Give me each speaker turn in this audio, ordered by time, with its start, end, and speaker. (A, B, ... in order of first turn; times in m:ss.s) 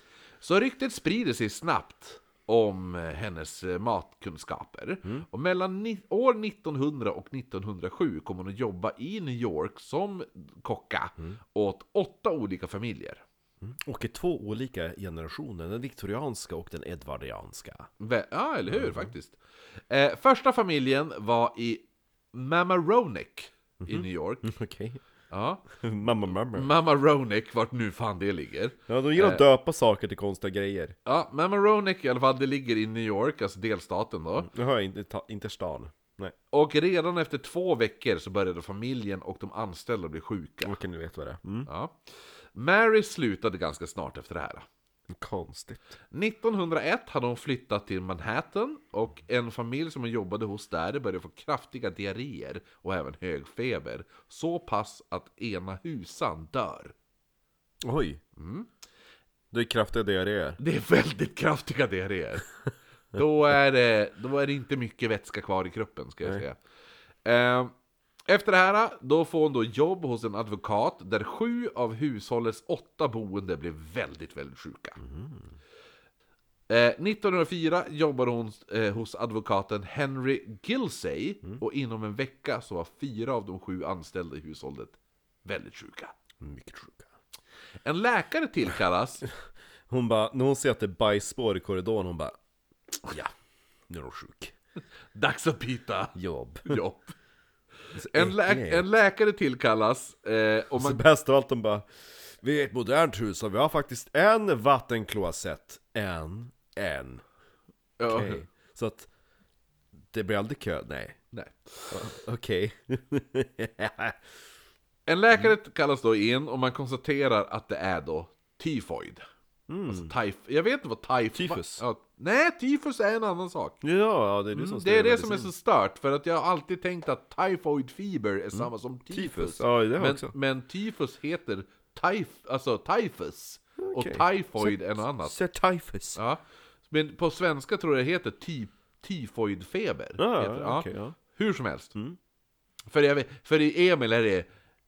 0:00.4-0:13.2 A
0:13.6-0:17.9 B
0:18.0-0:24.5 A
0:18.7-0:19.1 B
0:23.8-0:25.0 B
0:25.3-0:25.6 A
0:25.8-0:26.7 B
0:26.5-0:29.4 A
0:28.9-0:30.9 B
0:31.0-0:34.5 A
0:34.4-0:36.3 B
0:36.5-0:40.8 A
0:40.6-0:41.7 B
0:41.6-0:42.0 A
0:42.5-0:44.6 A
0:45.1-0:46.0 B
0:46.1-0:56.9 A
0:57.8-0:58.2 B
0:58.4-0:58.7 A
0:59.5-1:00.6 B
1:00.6-1:02.5 A
1:03.1-1:06.6 A
1:07.2-1:07.7 A
1:08.3-1:15.0 A
1:15.0-1:15.5 B
1:16.7-1:26.1 A
1:26.4-1:27.1 B
1:27.8-1:29.2 A
1:29.9-1:32.4 B
1:33.0-1:33.3 B
1:33.9-1:34.5 B
1:35.1-1:37.2 A
1:36.2-1:36.8 B
1:37.9-1:38.9 B
1:38.1-1:41.0 A
1:40.8-1:47.2 B
1:48.0-1:48.4 A
1:48.1-1:49.1 B
1:50.1-1:51.2 B
1:51.3-1:52.0 A
1:51.9-1:54.2 B
1:55.0-1:59.2 A
1:59.7-2:00.1 B
1:59.9-2:03.8 A
2:01.3-2:01.8 B
2:03.8-2:05.5 B
2:04.5-2:15.4 A
2:08.5-2:10.3 B
2:13.8-2:16.2 B
2:16.1-2:21.9 A
2:20.2-2:21.2 B
2:22.9-2:24.5 A